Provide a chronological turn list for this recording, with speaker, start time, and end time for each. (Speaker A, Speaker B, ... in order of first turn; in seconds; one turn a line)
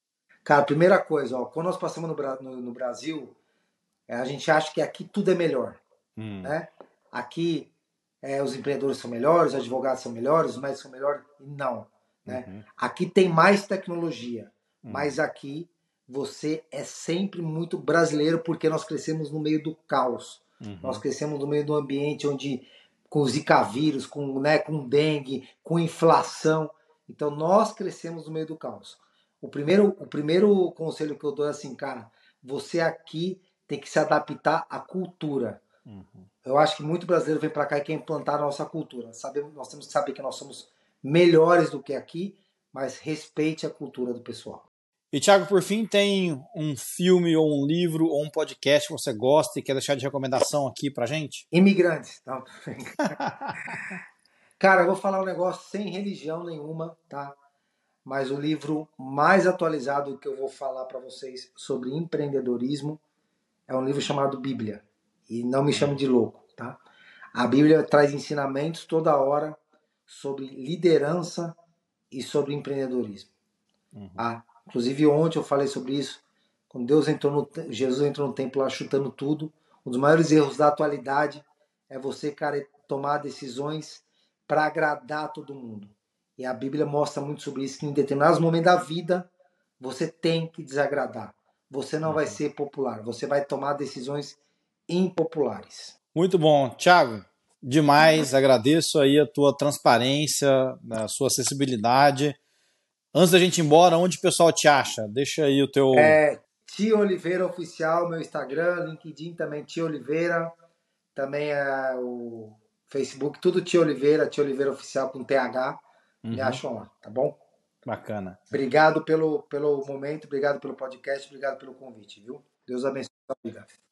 Speaker A: 0.4-3.3
Speaker A: 4.1-5.8
Speaker B: 6.2-6.5
Speaker A: 6.4-7.7
Speaker A: 8.2-35.6
Speaker B: 12.2-12.6
Speaker B: 14.8-15.2
Speaker B: 20.6-21.0
Speaker B: 35.9-36.3
Speaker A: 36.4-44.7
Speaker B: 45.1-51.4
Speaker A: 51.5-53.2
Speaker B: 53.2-53.7
Speaker A: 54.6-57.4
Speaker A: 58.0-63.0
Speaker A: 63.7-66.8
Speaker B: 65.7-66.0
Speaker A: 67.3-71.5
Speaker A: 72.1-73.3
Speaker B: 73.9-74.2
Speaker A: 74.2-89.3
Speaker A: 89.8-95.9
Speaker B: 92.0-92.4
Speaker B: 96.1-102.4
Speaker B: 103.1-106.2
Speaker A: 105.9-110.5
Speaker A: 111.1-115.8
Speaker B: 116.2-116.6
Speaker A: 116.3-117.4
Speaker B: 117.8-118.4
Speaker A: 118.5-123.7